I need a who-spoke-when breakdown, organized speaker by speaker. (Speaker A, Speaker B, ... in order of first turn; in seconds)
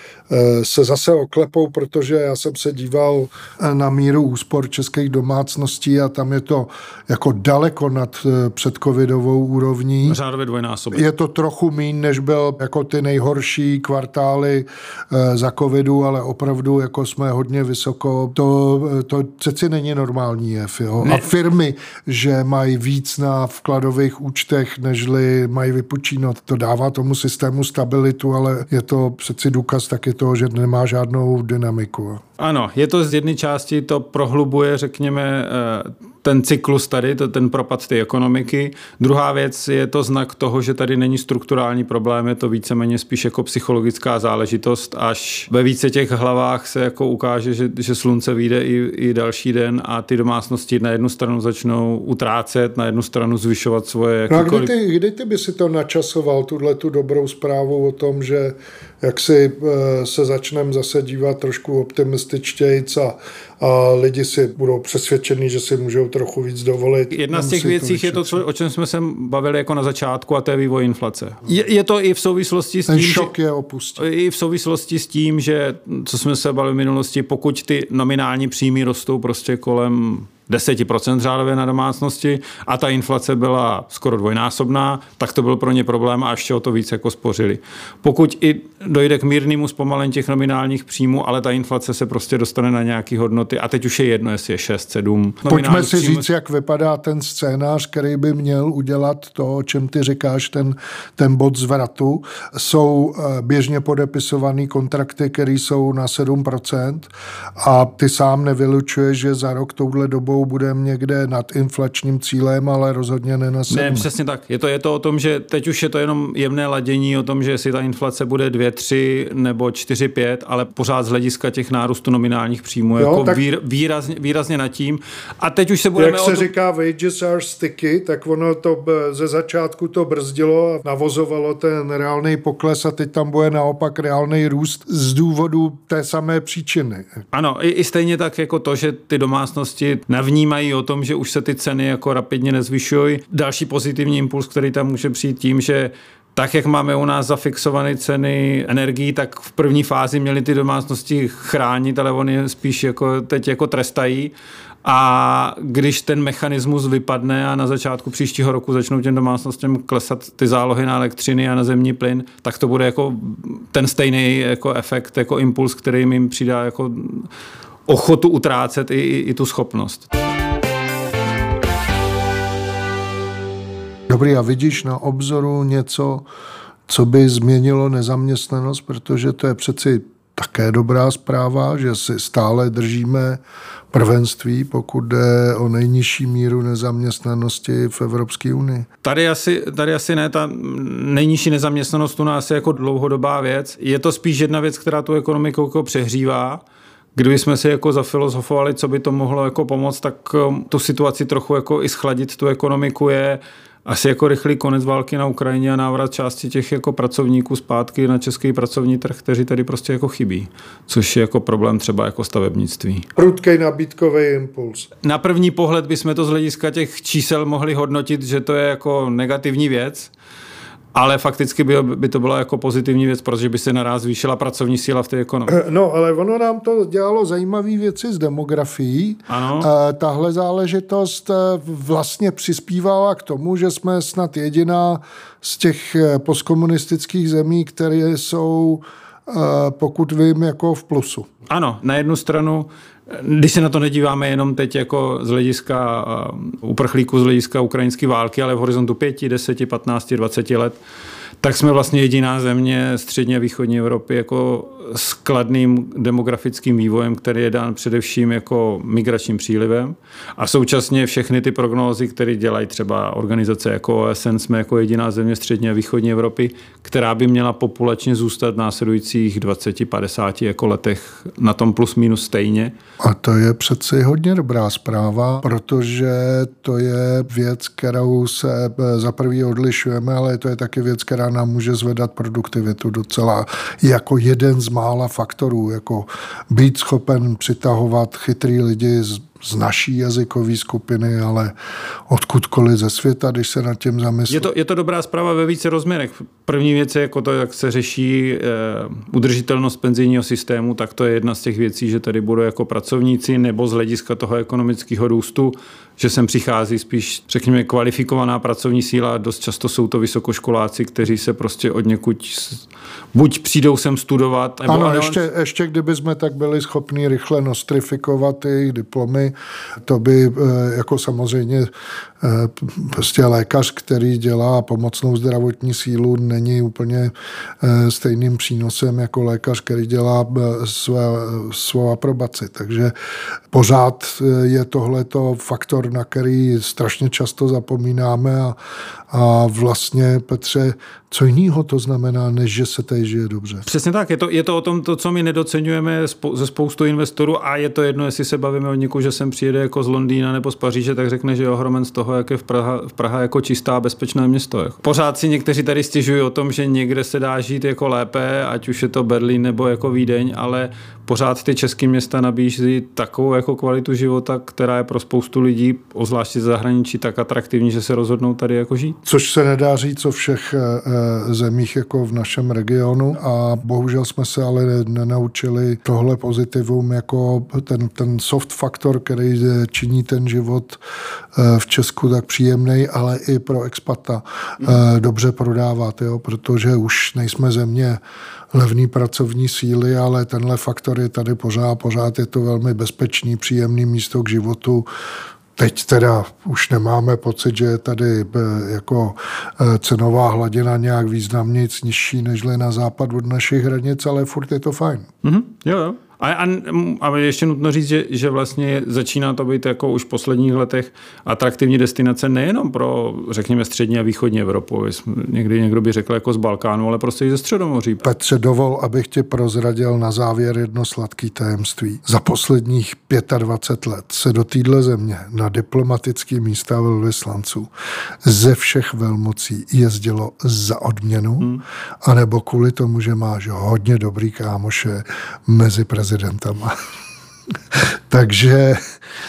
Speaker A: 0.3-10.2, 10.9-32.2, 54.3-68.4, 72.9-74.0, 95.5-114.1, 123.0-123.4, 126.0-137.2, 174.1-176.3, 176.9-183.4, 183.9-188.9, 213.2-214.9, 225.5-241.3, 273.0-291.5, 292.1-294.5, 314.7-321.7, 322.2-332.9, 333.5-338.6, 339.1-343.6, 369.1-380.8, 381.3-388.0, 388.5-394.9, 395.6-405.1, 418.0-427.7, 428.2-436.7, 437.7-438.8
Speaker B: 10.1-11.1, 32.4-54.7, 67.1-73.3, 74.0-96.3, 113.7-126.5, 137.3-167.3, 167.9-170.1, 189.0-196.6, 197.2-213.1, 215.0-220.1, 220.9-225.6, 229.3-229.7, 241.5-250.8, 251.4-272.7, 294.3-315.2, 343.7-369.0, 405.2-418.0